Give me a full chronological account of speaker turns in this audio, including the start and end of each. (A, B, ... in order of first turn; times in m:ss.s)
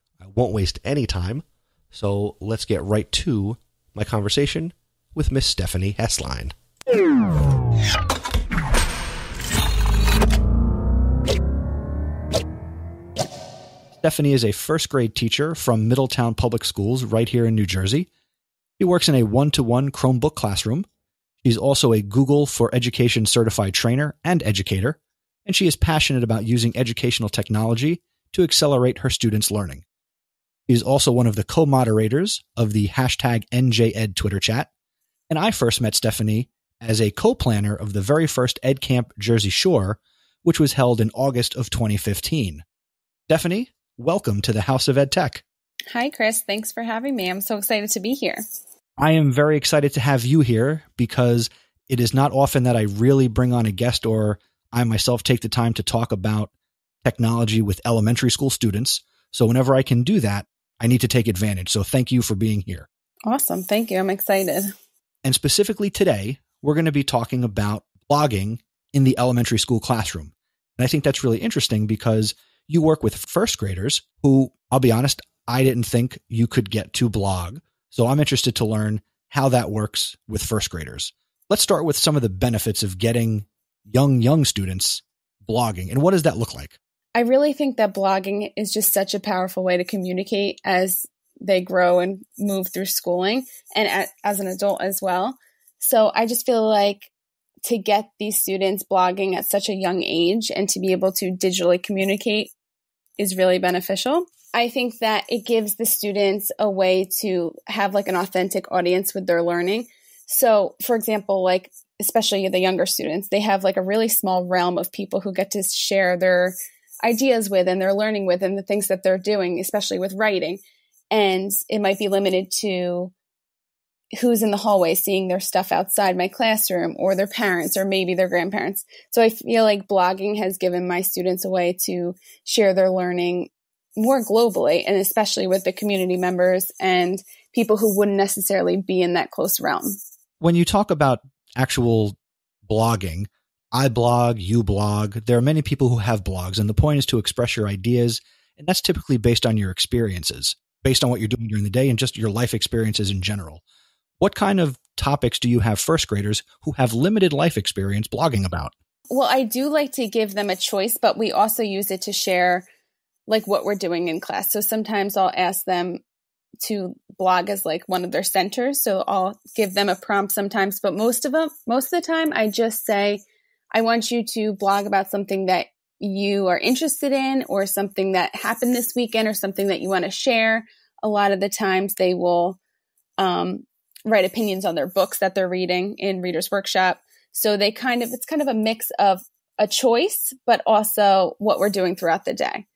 0:00.2-0:06.5 A
0:14.0-0:18.1 B
0:18.8-0:20.9 B
0:21.4-0:29.8 B
0:30.7-0:34.7 B
0:35.3-0:42.6 B
0:43.3-0:45.4 B
0:45.9-0:48.4 C
0:49.0-0:56.5 B
0:57.0-1:02.9 B
1:03.2-1:04.7 C
1:05.2-1:26.8 B
1:27.1-1:37.1 C
1:37.6-1:42.5 C
1:43.2-2:03.1 C
2:04.1-2:20.0 C
2:20.4-2:22.2 B
2:22.7-2:33.6 B
2:34.2-2:38.7 B
2:39.1-2:42.6 C
2:43.3-2:46.0 C
2:46.6-3:02.6 C
3:03.2-3:12.6 C